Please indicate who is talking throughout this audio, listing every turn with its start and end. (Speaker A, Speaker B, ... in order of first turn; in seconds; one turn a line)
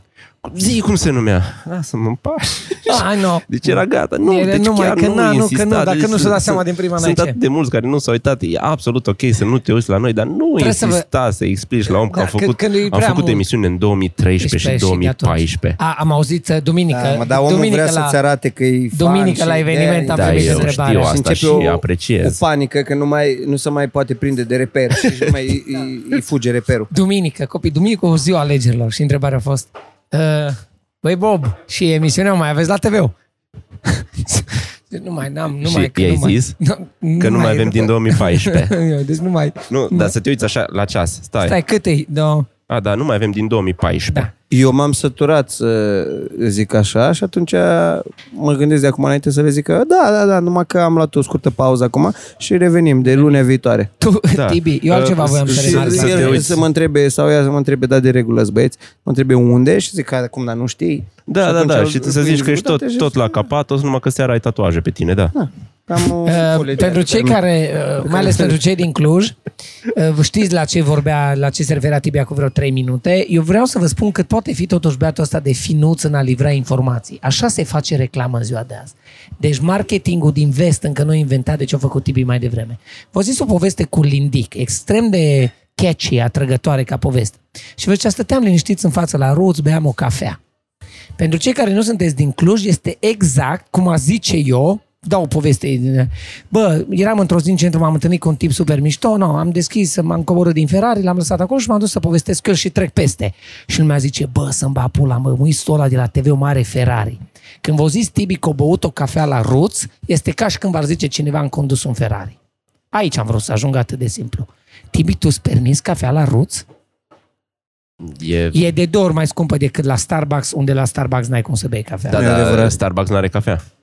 Speaker A: 0.4-15.8
Speaker B: 2.9-7.4
Speaker B: 10.6-11.1
Speaker B: 12.0-13.4
Speaker B: 14.4-18.2
Speaker C: 16.9-26.9
Speaker B: 18.9-21.2
Speaker A: 20.1-22.4
Speaker B: 26.9-33.1
Speaker B: 33.9-40.1
Speaker A: 35.6-36.6
Speaker A: 37.2-38.8
Speaker A: 39.7-41.6
Speaker B: 41.4-42.5
Speaker A: 42.7-44.3
Speaker C: 44.5-53.9
Speaker B: 54.0-56.5
Speaker A: 54.3-56.6
Speaker C: 55.5-63.4
Speaker A: 61.3-65.3
Speaker C: 65.3-67.4
Speaker B: 66.2-69.3
Speaker C: 68.0-68.6
Speaker B: 69.9-90.4
Speaker B: 91.2-112.4
Speaker B: 112.9-116.6
Speaker A: 118.0-118.6
Speaker B: 118.5-122.2
Speaker A: 122.1-123.6
Speaker C: 122.1-122.8